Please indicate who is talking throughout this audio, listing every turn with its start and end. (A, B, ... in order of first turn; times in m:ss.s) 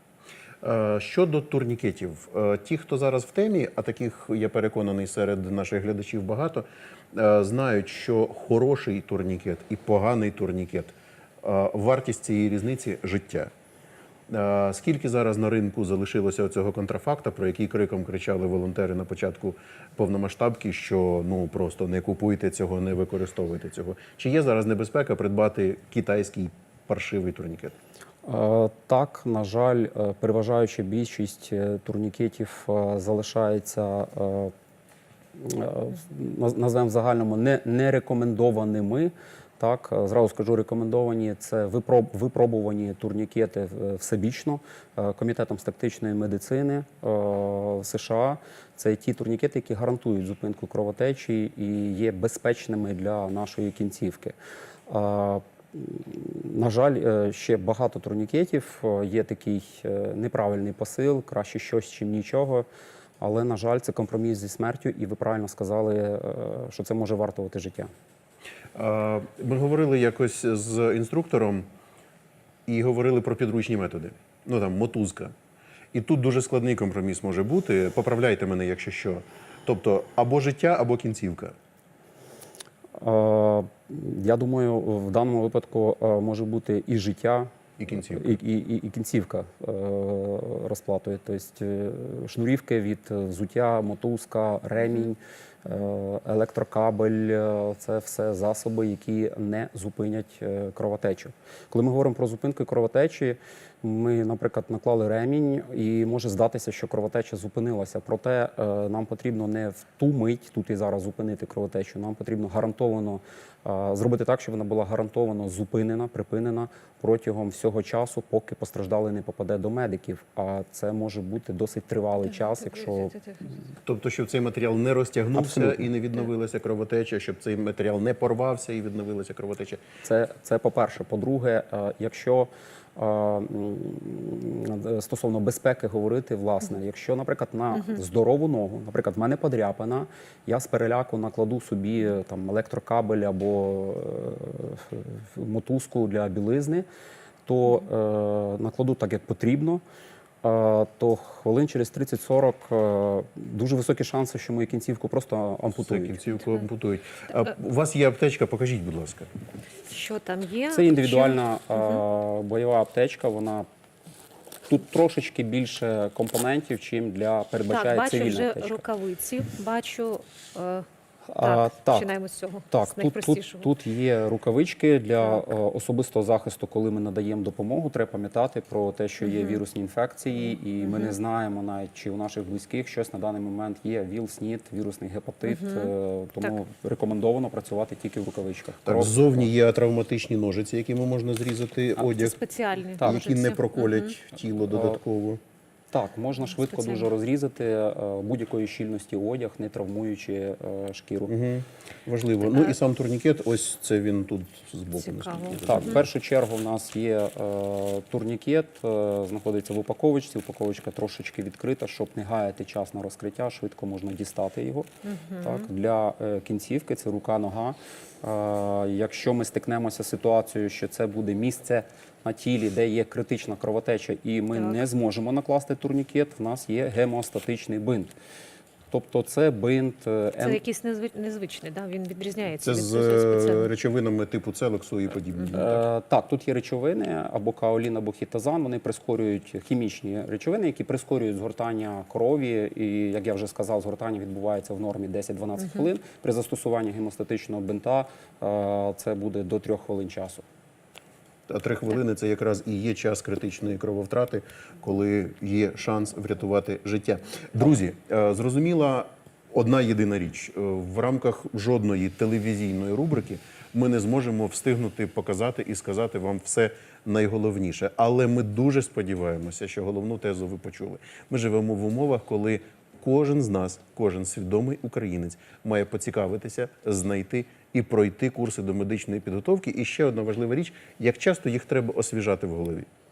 0:00.6-0:13.5 A
0:14.3-0:27.8 A
0:28.2-0:34.5 B
0:35.4-0:54.4 B
0:54.9-1:02.7 B
1:03.2-1:07.9 B
1:08.8-1:11.7 A
1:12.7-1:15.3 A
1:15.9-1:21.6 A
1:23.0-2:03.2 B
1:27.8-1:28.4 A
2:03.8-2:09.8 A
2:05.3-2:05.9 B
2:10.0-2:26.9 B
2:27.5-2:29.8 B
2:30.4-2:36.2 B
2:35.8-2:39.3 A
2:39.9-2:42.0 C
2:40.7-2:43.7 B
2:44.7-2:48.8 B
2:47.7-2:50.9 C
2:51.3-2:52.1 B
2:51.4-2:53.7 C
2:52.7-3:09.5 B
2:59.2-2:59.6 C
3:00.8-3:01.2 C
3:05.5-3:05.9 C
3:08.8-3:12.4 A
3:12.0-3:14.1 C
3:13.0-3:15.4 A
3:14.7-3:15.0 B
3:15.9-3:21.3 B
3:16.6-3:17.1 C
3:21.3-3:26.1 A
3:25.0-3:25.7 C
3:25.6-3:34.9 B
3:35.0-3:35.7 C
3:35.4-3:48.1 B
3:48.9-3:50.6 B
3:50.4-3:53.7 C
3:52.6-3:55.9 A
3:55.5-4:10.4 B
4:11.5-4:42.9 A